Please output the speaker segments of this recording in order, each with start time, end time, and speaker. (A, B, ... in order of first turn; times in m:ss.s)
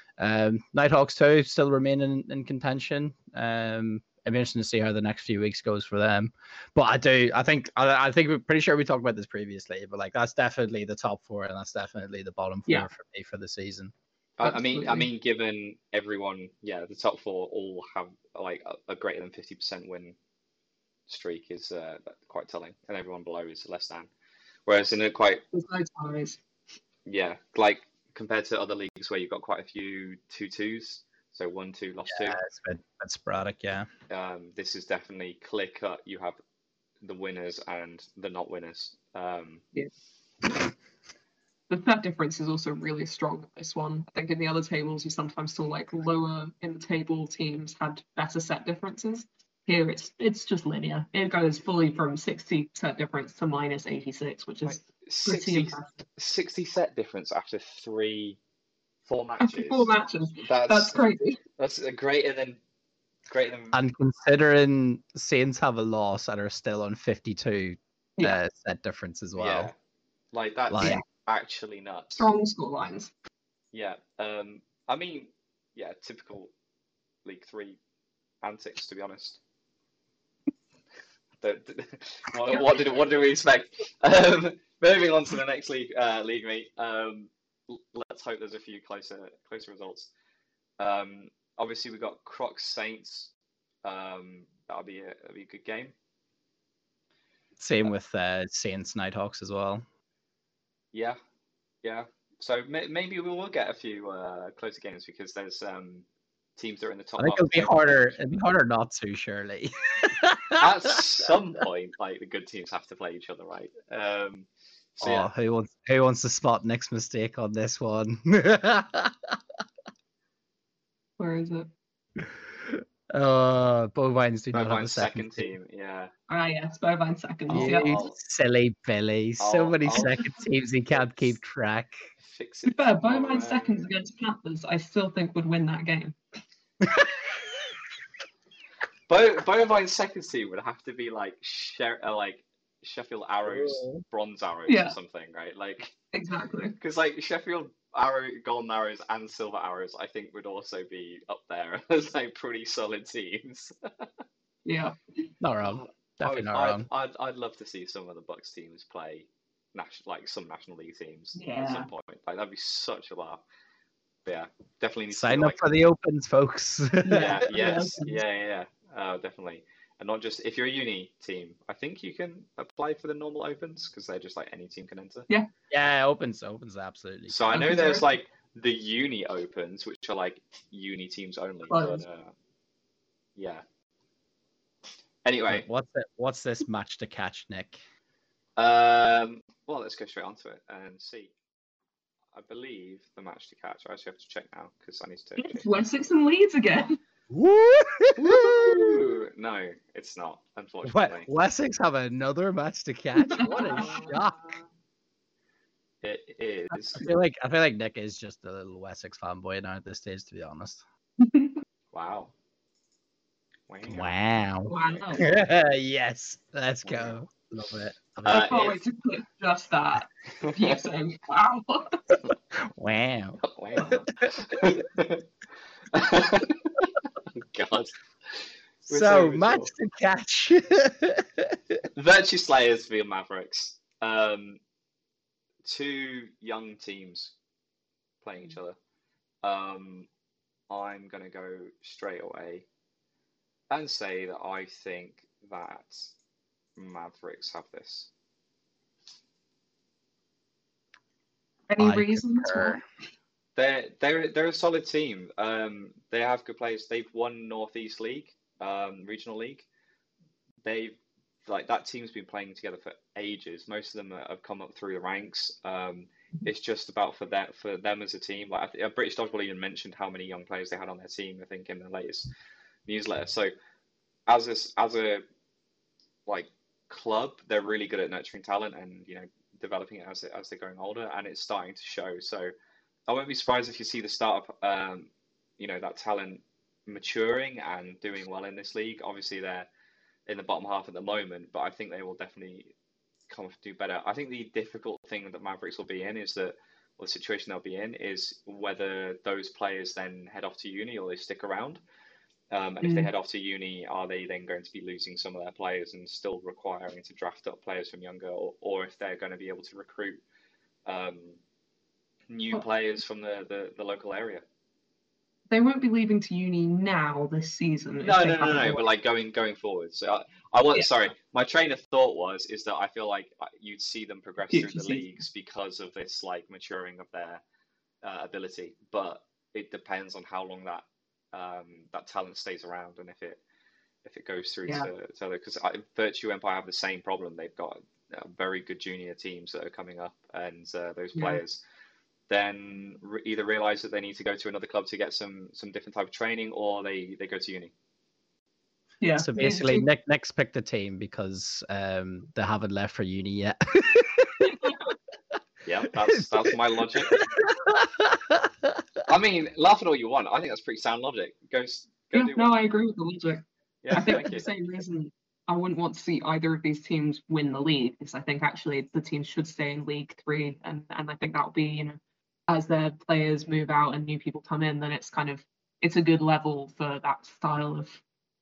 0:00.2-0:13.9 A
0:14.4-0:20.2 B
0:14.4-0:15.1 C
0:21.1-0:24.1 B
0:24.7-0:25.4 B
0:25.5-0:26.4 C
0:27.0-0:32.4 B
0:32.1-0:33.9 A
0:34.1-0:36.4 B
0:37.0-0:39.6 B
0:41.7-0:56.0 C
0:54.6-0:58.4 B
0:59.0-1:01.0 B
0:59.4-1:01.4 C
1:01.6-1:02.6 B
1:03.3-1:03.8 B
1:03.7-1:09.7 A
1:09.4-1:09.7 B
1:10.3-1:12.3 B
1:10.7-1:11.0 A
1:12.2-1:13.1 C
1:13.7-1:16.5 B
1:17.2-1:17.8 B
1:18.4-1:19.4 B
1:21.4-1:30.1 B
1:22.5-1:22.8 C
1:30.8-1:33.3 B
1:33.8-1:35.9 B
1:37.6-1:39.8 A
1:40.9-1:41.2 B
1:41.8-1:46.0 B
1:46.6-1:48.4 B
1:47.2-1:50.6 A
1:50.6-1:55.3 B
1:55.0-1:59.4 A
2:01.2-2:01.7 C
2:02.2-2:05.5 A
2:04.5-2:06.1 B
2:06.3-2:08.0 C
2:07.5-2:12.0 A
2:07.5-2:08.2 B
2:09.4-2:10.3 B
2:12.2-2:13.9 B
2:12.6-2:16.2 C
2:16.8-2:17.2 A
2:19.1-2:25.9 B
2:23.4-2:24.0 A
2:24.7-2:25.0 C
2:26.1-2:26.7 C
2:26.8-2:34.1 B
2:34.6-2:35.2 C
2:35.4-2:36.9 A
2:35.6-2:43.4 B
2:41.4-2:41.9 C
2:44.2-2:45.7 B
2:45.1-2:47.3 A
2:47.1-2:48.2 C
2:47.1-2:55.3 B
2:55.7-2:57.3 A
2:57.3-3:02.3 B
2:57.5-2:58.0 C
3:01.7-3:02.0 C
3:03.4-3:03.6 B
3:05.2-3:05.6 B
3:05.5-3:07.8 A
3:08.6-3:11.3 B
3:12.3-3:15.7 B
3:15.4-3:17.0 C
3:17.3-3:19.0 A
3:18.2-3:21.3 B
3:20.8-3:24.4 A
3:23.2-3:24.2 C
3:26.0-3:27.0 B
3:26.9-3:30.8 A
3:31.2-3:31.6 C
3:31.9-3:32.3 B
3:33.7-3:35.4 B
3:33.9-3:38.6 A
3:34.7-3:35.3 C
3:36.8-3:37.2 B
3:38.2-3:38.8 B
3:38.3-3:42.1 C
3:40.4-3:40.8 B
3:42.6-3:43.9 A
3:43.4-3:45.3 B
3:43.8-3:44.0 C
3:45.9-3:49.7 B
3:48.9-3:51.8 A
3:52.0-3:54.6 B
3:55.6-3:57.4 B
3:58.2-3:58.8 B
3:59.4-4:00.1 B
4:00.7-4:02.6 B
4:03.7-4:06.1 B
4:06.8-4:08.1 B
4:11.7-4:12.8 C
4:11.8-4:12.8 A
4:13.6-4:19.7 B
4:20.6-4:32.3 B
4:32.9-4:33.5 B
4:34.3-4:35.2 B
4:36.3-4:42.5 B
4:43.1-4:49.7 B
4:50.3-4:52.7 B
4:53.3-5:01.8 B
5:02.5-5:10.2 B
5:02.8-5:03.1 C
5:10.9-5:11.4 B
5:12.3-5:14.4 B
5:15.5-5:18.9 C
5:18.0-5:27.4 B
5:24.5-5:25.0 C
5:28.0-5:33.4 B
5:34.0-5:41.6 B
5:41.1-5:41.4 C
5:42.3-5:47.7 B
5:49.0-5:49.9 C
5:49.2-5:54.5 A
5:54.4-5:54.9 C
5:55.6-5:57.2 B
5:57.1-5:58.8 A
5:59.0-6:02.6 B
6:02.1-6:18.0 C
6:03.8-6:04.5 B